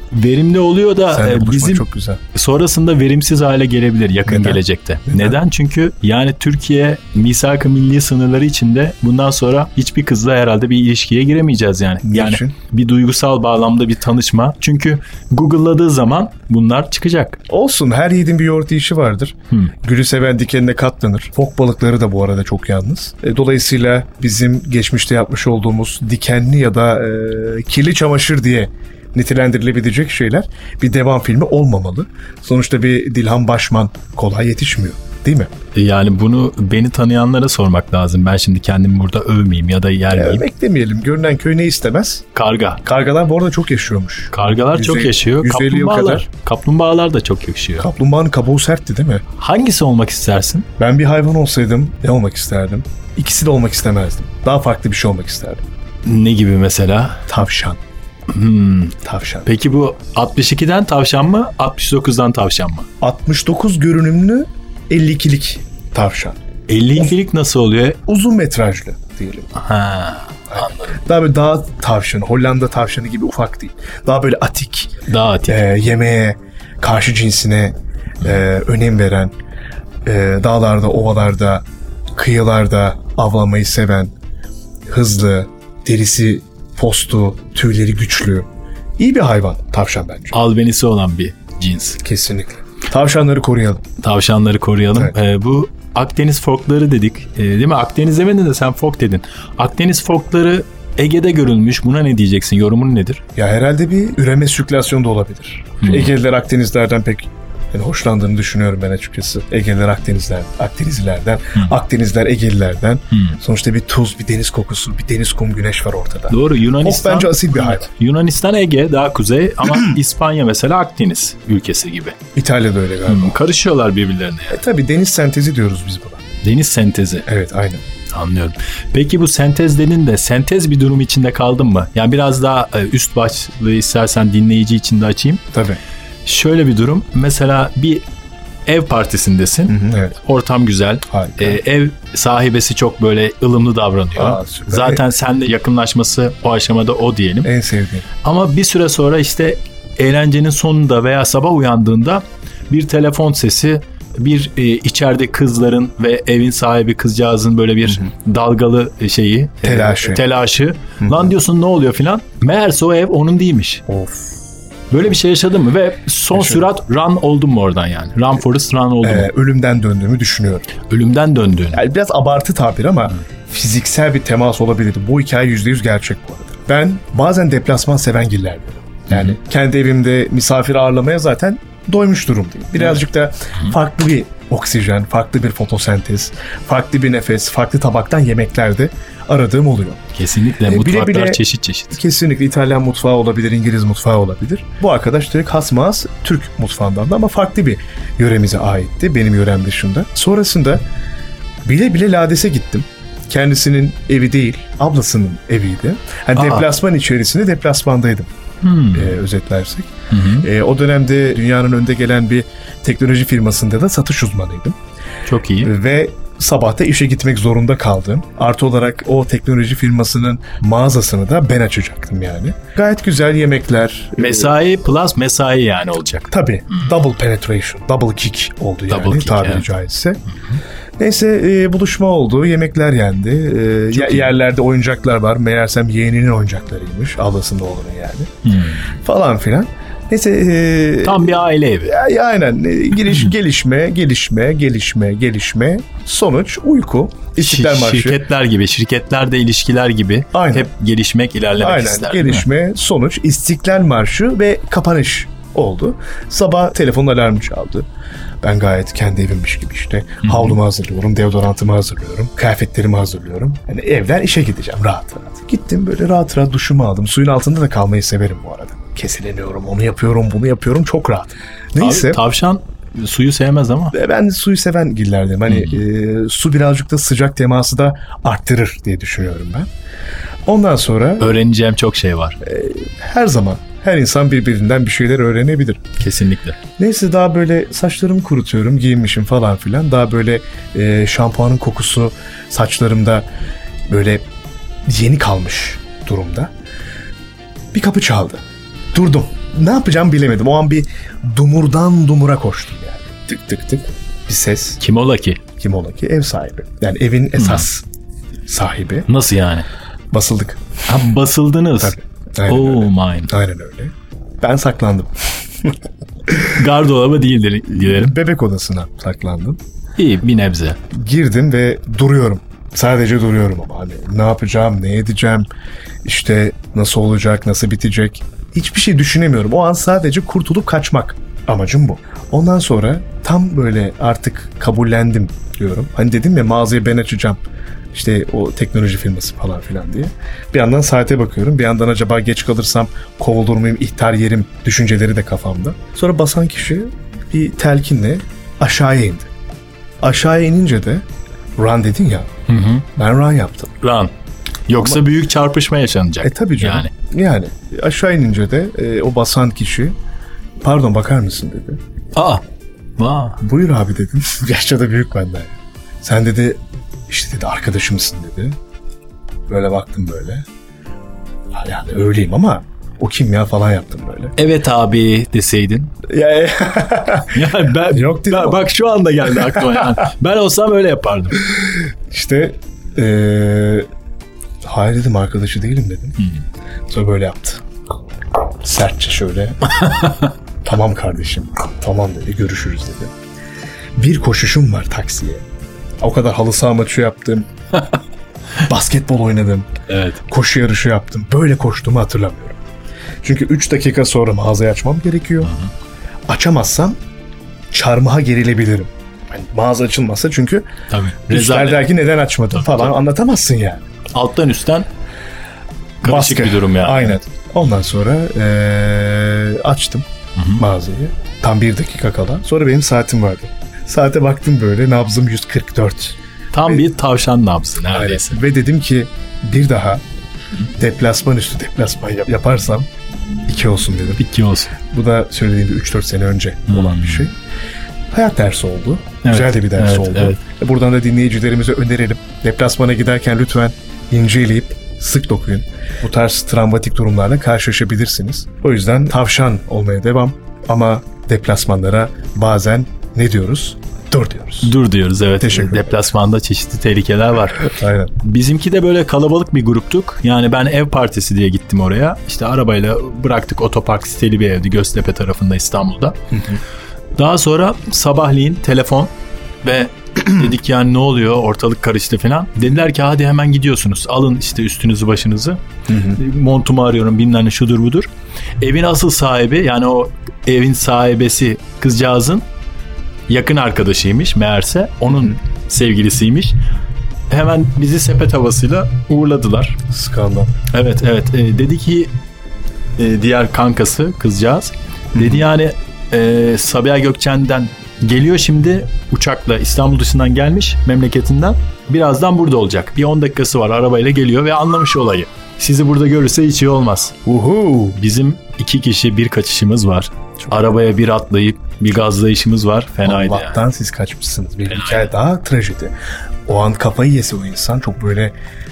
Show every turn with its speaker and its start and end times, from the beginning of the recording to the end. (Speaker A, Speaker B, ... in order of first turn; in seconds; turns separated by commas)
Speaker A: 0.1-17.4, Speaker B: 1.1-2.2, Speaker B: 4.2-5.3, Speaker B: 12.0-12.6, Speaker B: 17.5-35.5, Speaker A: 35.7-40.5, Speaker B: 40.1-42.2, Speaker A: 42.3-42.8, Speaker B: 42.8-46.3, Speaker A: 44.3-47.9, Speaker B: 47.8-49.2, Speaker A: 49.4-50.7, Speaker B: 50.8-55.6, Speaker A: 56.0-57.3, Speaker B: 57.3-57.8, Speaker A: 58.3-62.9, Speaker B: 59.0-59.5, Speaker B: 63.0-66.3, Speaker A: 66.7-68.0, Speaker B: 68.1-69.5, Speaker A: 69.5-71.0, Speaker B: 70.5-79.3, Speaker A: 75.1-75.6, Speaker B: 80.0-81.6, Speaker B: 82.2-84.1, Speaker B: 84.9-88.5, Speaker B: 89.0-90.4, Speaker A: 90.3-92.0, Speaker B: 92.0-93.8, Speaker A: 94.0-103.2, Speaker B: 103.3-117.9, Speaker A: 105.8-106.1, Speaker A: 116.3-122.2, Speaker B: 122.3-123.4, Speaker A: 123.1-124.6, Speaker B: 124.5-126.2, Speaker A: 126.4-127.3, Speaker B: 127.3-127.8, Speaker A: 128.1-135.4, Speaker B: 135.5-135.8, Speaker A: 136.2-138.0, Speaker A: 138.7-147.5, Speaker B: 139.7-140.2, Speaker B: 141.1-141.6, Speaker B: 144.2-145.0, Speaker B: 147.4-148.0, Speaker A: 148.2-163.8, Speaker B: 159.6-160.3, Speaker B: 161.0-161.3, Speaker B: 163.9-164.3, Speaker A: 164.9-169.3, Speaker B: 166.3-166.7, Speaker B: 169.0-170.7, Speaker A: 170.9-171.8, Speaker B: 171.7-190.0, Speaker A: 179.1-179.3, Speaker A: 190.2-192.0, Speaker B: 190.6-200.8, Speaker B: 201.6-208.3, Speaker A: 206.3-206.7, Speaker A: 208.6-209.2, Speaker B: 208.9-214.8, Speaker A: 210.1-210.5, Speaker A: 215.2-215.7, Speaker B: 215.6-224.5, Speaker A: 224.2-226.8, Speaker B: 226.3-230.2, Speaker A: 228.9-229.7, Speaker B: 231.0-238.3, Speaker A: 233.9-234.3, Speaker A: 238.4-239.0, Speaker B: 238.9-248.2, Speaker A: 241.0-242.0, Speaker A: 247.4-252.4, Speaker B: 250.3-250.7, Speaker B: 251.6-257.9, Speaker B: 258.4-272.2, Speaker A: 260.2-260.6, Speaker A: 271.8-273.9, Speaker B: 273.9-279.7, Speaker A: 275.5-275.8, Speaker B: 280.4-281.4, Speaker A: 281.2-282.4, Speaker B: 282.4-285.8, Speaker A: 286.0-286.6, Speaker B: 286.8-293.2, Speaker B: 293.9-294.2, Speaker B: 294.9-296.5, Speaker B: 297.7-298.4, Speaker B: 298.9-304.8, Speaker A: 304.8-305.4, Speaker B: 305.6-307.8, Speaker A: 307.4-307.7, Speaker B: 308.5-309.1, Speaker A: 309.1-309.6, Speaker B: 310.1-310.7, Speaker A: 310.9-313.3, Speaker B: 311.8-315.7, Speaker B: 316.3-316.7, Speaker A: 316.5-318.1, Speaker B: 317.7-319.6, Speaker A: 320.0-320.8, Speaker B: 320.9-325.5, Speaker B: 326.0-337.4, Speaker B: 337.9-349.3, Speaker B: 350.0-351.0, Speaker B: 351.6-352.3, Speaker A: 352.5-352.9, Speaker B: 353.0-353.7, Speaker A: 353.8-354.1, Speaker A: 354.7-356.9, Speaker B: 354.8-355.0, Speaker B: 356.2-359.9, Speaker B: 360.6-361.8, Speaker A: 362.1-362.4, Speaker A: 363.0-363.4, Speaker B: 363.4-365.5, Speaker B: 366.0-368.5, Speaker B: 369.5-370.4, Speaker B: 371.5-374.3, Speaker A: 374.4-375.9, Speaker B: 376.1-378.7, Speaker A: 377.3-381.4, Speaker B: 382.1-383.9, Speaker B: 384.6-386.2, Speaker B: 386.9-387.6, Speaker B: 388.6-389.8, Speaker B: 390.6-393.1, Speaker B: 394.0-395.4, Speaker B: 396.0-397.5, Speaker B: 398.6-399.7, Speaker A: 399.9-400.2, Speaker B: 400.2-402.6, Speaker B: 403.2-405.5, Speaker A: 405.4-405.7, Speaker B: 406.3-406.9, Speaker B: 407.7-410.7, Speaker A: 410.9-411.9, Speaker B: 411.3-413.8, Speaker A: 412.5-412.9, Speaker A: 414.1-414.9, Speaker A: 416.0-417.2, Speaker B: 416.0-420.0, Speaker A: 420.4-420.6, Speaker B: 420.6-426.2, Speaker A: 426.5-428.4, Speaker B: 427.9-430.0, Speaker B: 430.8-432.9, Speaker B: 433.5-434.2, Speaker A: 434.2-434.7, Speaker B: 434.9-437.3, Speaker A: 436.7-437.3, Speaker B: 438.1-454.7, Speaker A: 439.2-440.4, Speaker A: 454.6-466.2, Speaker B: 455.4-456.0, Speaker B: 457.6-458.1, Speaker B: 466.3-466.6, Speaker A: 467.2-469.1, Speaker A: 469.6-478.1, Speaker B: 475.9-476.2, Speaker A: 478.6-482.4, Speaker A: 483.3-486.6, Speaker B: 485.1-485.4, Speaker A: 487.3-489.8, Speaker B: 489.9-490.6, Speaker A: 490.7-492.1, Speaker A: 493.0-507.2, Speaker B: 495.1-495.5, Speaker B: 507.2-508.0, Speaker A: 507.9-513.6, Speaker B: 510.4-510.8, Speaker B: 513.0-515.9, Speaker A: 514.7-515.1, Speaker B: 516.5-518.3